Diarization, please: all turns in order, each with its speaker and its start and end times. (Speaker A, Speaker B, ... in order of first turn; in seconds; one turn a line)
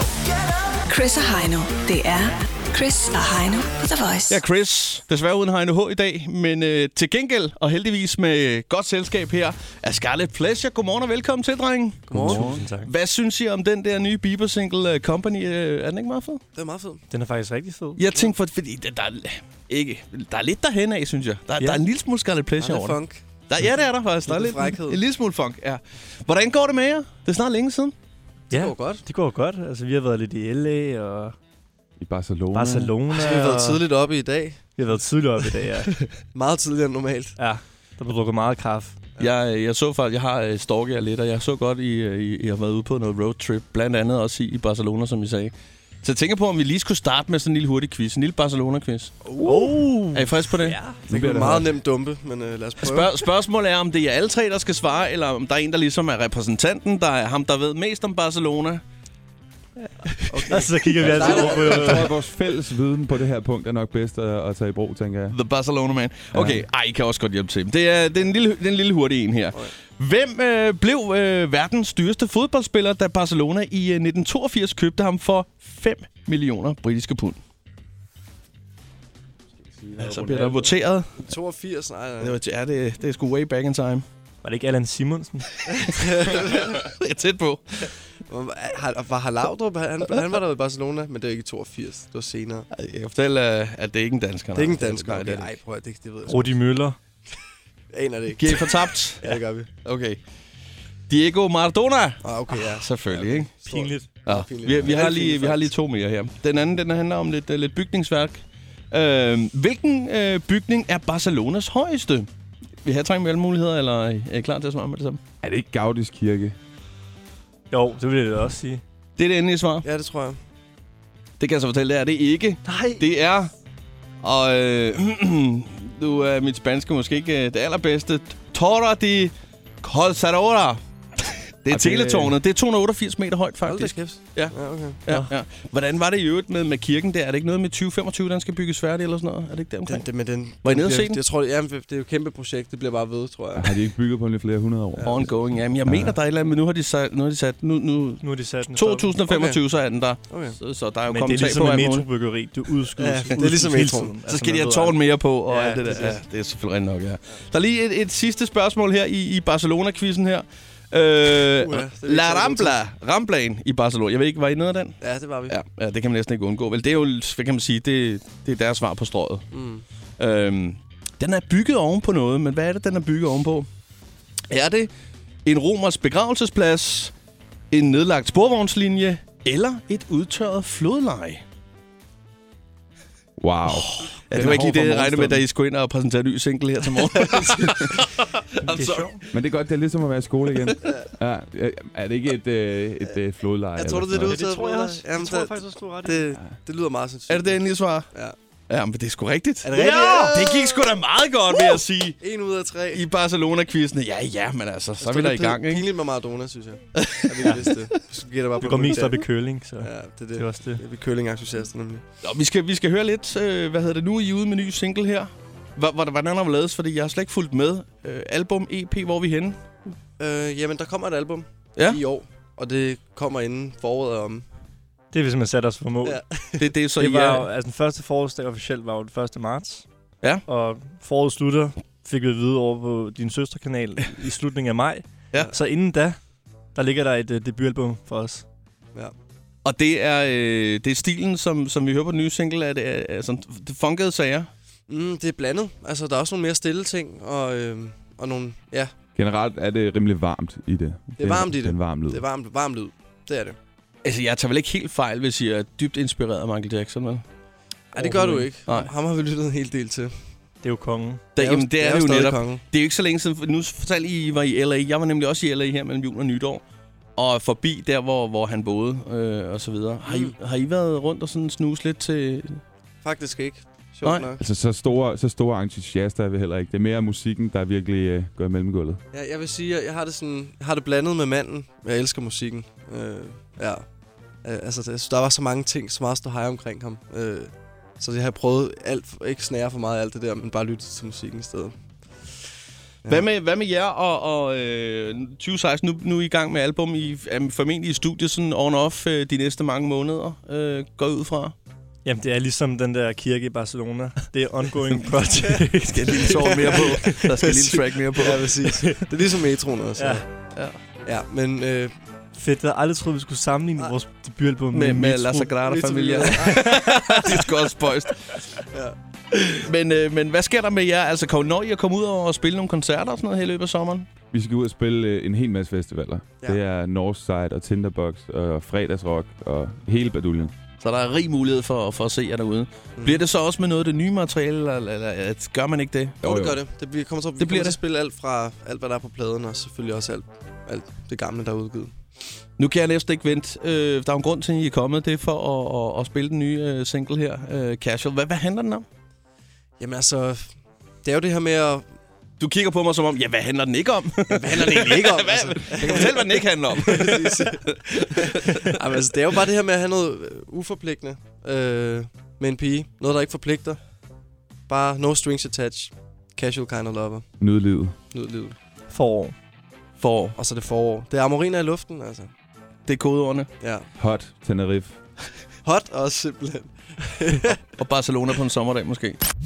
Speaker A: 0.8-4.4
Speaker B: 4.3-16.4
Speaker C: 12.1-12.5
Speaker A: 12.1-12.9
Speaker D: 12.3-12.9
Speaker C: 16.5-17.0
Speaker D: 17.1-18.0
Speaker B: 18.0-27.9
Speaker C: 22.6-23.2
Speaker C: 24.2-25.0
Speaker C: 28.5-29.1
Speaker D: 28.5-31.4
Speaker E: 32.0-32.9
Speaker D: 32.5-33.1
Speaker C: 33.1-34.6
Speaker A: 33.1-33.8
Speaker D: 34.8-35.9
Speaker A: 35.7-36.0
Speaker C: 36.3-37.4
Speaker D: 37.4-39.0
Speaker B: 39.2-49.2
Speaker C: 49.2-49.7
Speaker A: 49.4-50.9
Speaker B: 50.1-50.8
Speaker C: 50.9-53.1
Speaker E: 51.1-51.8
Speaker B: 52.8-58.8
Speaker A: 60.0-62.1
Speaker C: 60.3-62.1
Speaker E: 61.0-65.4
Speaker B: 65.3-77.4
Speaker E: 66.3-66.7
Speaker E: 79.6-80.8
Speaker B: 80.0-81.2
Speaker C: 81.2-82.4
Speaker B: 82.2-84.0
Speaker D: 84.4-85.4
Speaker C: 85.7-86.7
Speaker B: 86.0-87.9
Speaker C: 88.3-92.7
Speaker B: 92.7-95.5
Speaker C: 94.5-96.5
Speaker D: 96.3-97.0
Speaker C: 97.9-99.7
Speaker B: 98.4-100.2
Speaker B: 101.1-103.5
Speaker C: 102.2-105.7
Speaker D: 103.7-104.1
Speaker B: 104.2-112.3
Speaker B: 112.8-115.2
Speaker E: 115.4-116.5
Speaker D: 117.7-118.8
Speaker B: 119.2-119.8
Speaker C: 119.8-120.4
Speaker B: 121.4-123.5
Speaker B: 124.2-140.1
Speaker C: 131.7-132.3
Speaker C: 133.6-135.0
Speaker C: 139.8-143.8
Speaker B: 140.6-141.2
Speaker E: 143.5-146.2
Speaker C: 144.9-145.2
Speaker B: 145.0-152.1
Speaker D: 148.2-148.8
Speaker A: 148.8-149.2
Speaker C: 149.2-149.6
Speaker C: 150.3-150.6
Speaker A: 151.1-152.0
Speaker D: 151.9-154.3
Speaker C: 153.0-154.2
Speaker A: 153.2-155.0
Speaker B: 154.3-169.5
Speaker A: 155.5-156.0
Speaker C: 155.6-156.2
Speaker C: 161.6-162.8
Speaker C: 165.0-165.6
Speaker C: 169.5-169.8
Speaker B: 170.2-173.7
Speaker B: 174.5-174.9
Speaker B: 175.4-177.1
Speaker B: 177.7-181.4
Speaker E: 183.4-185.4
Speaker B: 183.7-189.2
Speaker E: 187.6-187.9
Speaker A: 188.6-189.2
Speaker E: 189.3-194.4
Speaker C: 193.7-198.3
Speaker A: 194.3-194.8
Speaker D: 194.3-196.1
Speaker A: 195.7-196.3
Speaker B: 197.3-198.1
Speaker B: 198.7-202.2
Speaker C: 199.6-200.8
Speaker C: 202.2-203.0
Speaker B: 202.9-205.8
Speaker C: 205.0-209.2
Speaker B: 207.0-207.9
Speaker D: 208.6-210.8
Speaker C: 209.8-212.0
Speaker B: 212.2-219.6
Speaker C: 220.2-224.4
Speaker D: 225.1-226.1
Speaker C: 226.0-226.7
Speaker B: 226.6-227.5
Speaker A: 227.0-227.3
Speaker D: 227.4-229.8
Speaker D: 230.5-236.2
Speaker D: 236.7-238.4
Speaker B: 239.6-244.5
Speaker C: 244.9-248.9
Speaker E: 249.2-252.2
Speaker C: 251.2-253.6
Speaker B: 254.0-257.2
Speaker C: 257.9-260.1
Speaker D: 258.0-258.4
Speaker B: 258.6-258.9
Speaker D: 260.6-261.2
Speaker B: 261.3-266.6
Speaker C: 261.4-262.6
Speaker B: 267.2-272.6
Speaker C: 270.1-270.4
Speaker C: 273.0-274.4
Speaker B: 274.0-274.3
Speaker E: 274.4-279.0
Speaker C: 279.1-283.8
Speaker C: 284.4-291.7
Speaker B: 293.1-301.5
Speaker D: 302.0-305.0
Speaker A: 305.0-307.5
Speaker B: 305.8-308.7
Speaker C: 306.2-310.2
Speaker A: 308.6-309.1
Speaker C: 311.0-311.9
Speaker D: 312.4-314.8
Speaker B: 314.7-318.3
Speaker A: 314.8-315.5
Speaker C: 315.6-317.4
Speaker A: 316.5-317.4
Speaker B: 319.6-324.1
Speaker E: 324.3-330.5
Speaker B: 330.8-336.2
Speaker C: 333.0-333.2
Speaker E: 336.2-336.6
Speaker C: 336.2-341.9
Speaker B: 337.4-337.8
Speaker B: 342.6-348.9
Speaker C: 349.8-350.5
Speaker C: 351.0-351.8
Speaker B: 352.4-358.9
Speaker C: 354.3-363.8
Speaker C: 364.7-367.3
Speaker E: 367.4-367.9
Speaker C: 368.1-368.6
Speaker D: 368.9-369.3
Speaker B: 370.0-370.4
Speaker C: 370.4-372.3
Speaker B: 372.9-373.5
Speaker C: 373.6-373.9
Speaker E: 374.0-375.0
Speaker C: 375.6-377.6
Speaker B: 377.8-379.2